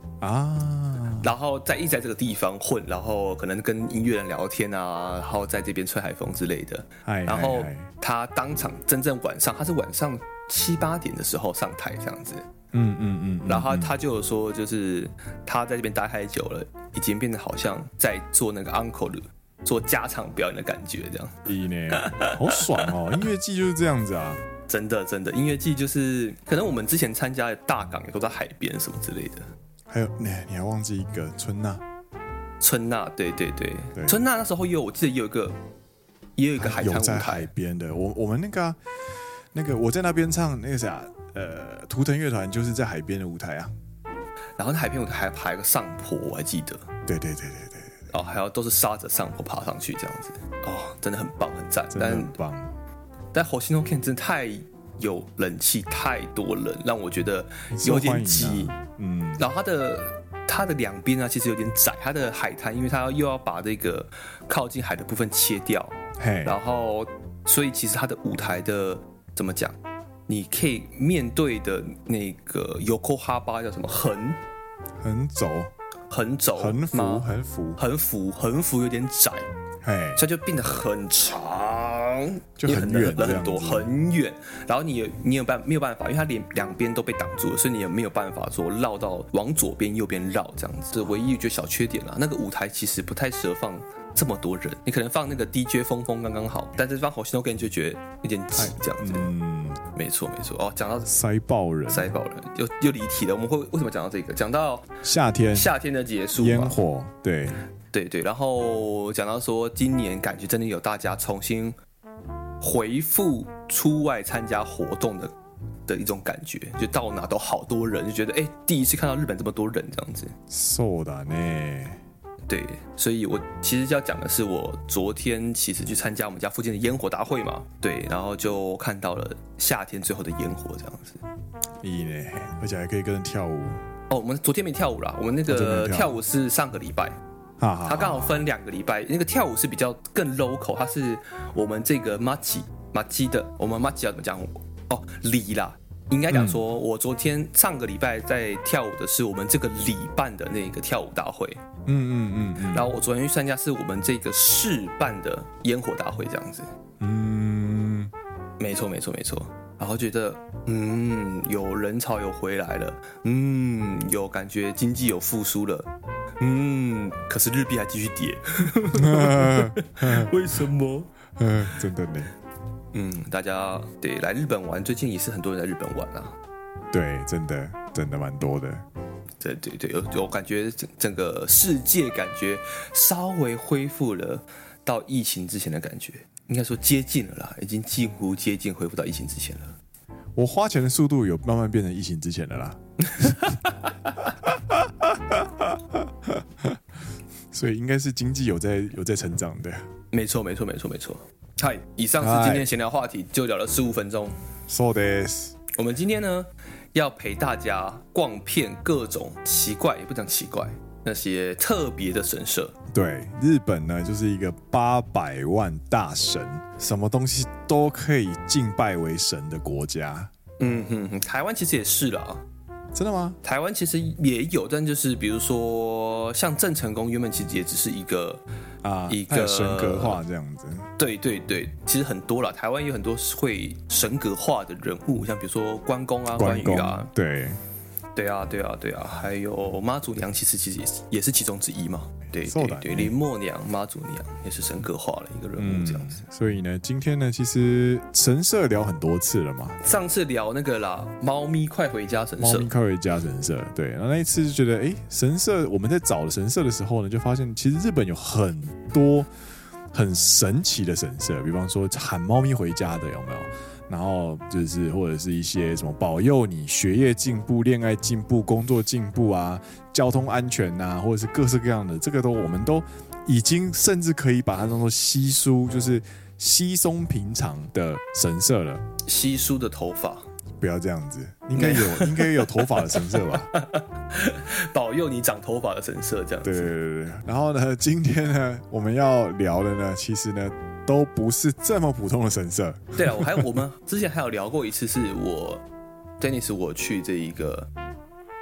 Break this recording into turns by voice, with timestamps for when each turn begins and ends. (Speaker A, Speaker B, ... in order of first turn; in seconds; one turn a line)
Speaker A: 0.2-1.3
Speaker B: 1.2-12.4
Speaker A: 7.0-7.9
Speaker A: 12.7-13.9
Speaker B: 13.5-21.4
Speaker A: 21.4-24.4
Speaker B: 21.9-22.9
Speaker B: 24.7-29.4
Speaker A: 29.9-31.8
Speaker B: 32.6-35.5
Speaker A: 34.0-34.2
Speaker B: 36.4-37.5
Speaker A: 36.6-38.8
Speaker A: 39.5-43.7
Speaker B: 44.6-46.9
Speaker A: 47.0-48.0
Speaker B: 48.1-52.3
Speaker A: 51.9-52.7
Speaker B: 53.3-58.7
Speaker A: 57.7-59.4
Speaker B: 59.4-69.8
Speaker A: 66.2-66.6
Speaker B: 70.3-74.4
Speaker A: 75.0-75.7
Speaker B: 76.1-79.5
Speaker A: 76.6-77.8
Speaker A: 79.8-80.2
Speaker B: 80.2-99.3
Speaker A: 82.6-83.9
Speaker A: 98.5-99.8
Speaker B: 99.9-101.1
Speaker A: 101.1-102.1
Speaker B: 101.9-104.9
Speaker A: 105.0-105.7
Speaker B: 105.5-106.8
Speaker A: 106.3-107.6
Speaker B: 107.9-111.8
Speaker B: 112.6-115.3
Speaker B: 115.9-120.3
Speaker A: 120.5-122.0
Speaker B: 122.5-131.2
Speaker A: 131.8-133.8
Speaker B: 134.1-137.2
Speaker A: 135.5-136.1
Speaker A: 137.6-138.4
Speaker B: 137.8-151.6
Speaker A: 146.3-146.6
Speaker A: 151.8-152.9
Speaker B: 152.7-156.7
Speaker A: 157.0-158.1
Speaker B: 158.6-165.9
Speaker B: 166.4-171.1
Speaker A: 168.9-170.3
Speaker A: 171.4-172.3
Speaker B: 172.9-176.3
Speaker A: 176.9-178.8
Speaker B: 179.4-189.7
Speaker A: 190.3-193.4
Speaker B: 193.1-193.9
Speaker A: 194.4-196.8
Speaker A: 197.5-199.8
Speaker B: 200.1-204.3
Speaker A: 202.2-202.7
Speaker A: 204.7-205.5
Speaker B: 205.7-212.7
Speaker A: 212.9-220.3
Speaker B: 220.6-222.4
Speaker A: 222.9-223.4
Speaker B: 223.4-228.4
Speaker A: 228.8-230.9
Speaker B: 229.1-230.2
Speaker B: 231.0-237.1
Speaker A: 236.3-237.6
Speaker B: 238.1-246.2
Speaker A: 242.4-243.1
Speaker A: 245.6-249.8
Speaker B: 249.8-252.7
Speaker A: 252.4-259.3
Speaker A: 259.9-278.8
Speaker B: 279.0-280.2
Speaker A: 280.6-283.5
Speaker B: 281.5-286.7
Speaker A: 286.4-293.5
Speaker B: 292.9-295.6
Speaker B: 296.2-297.7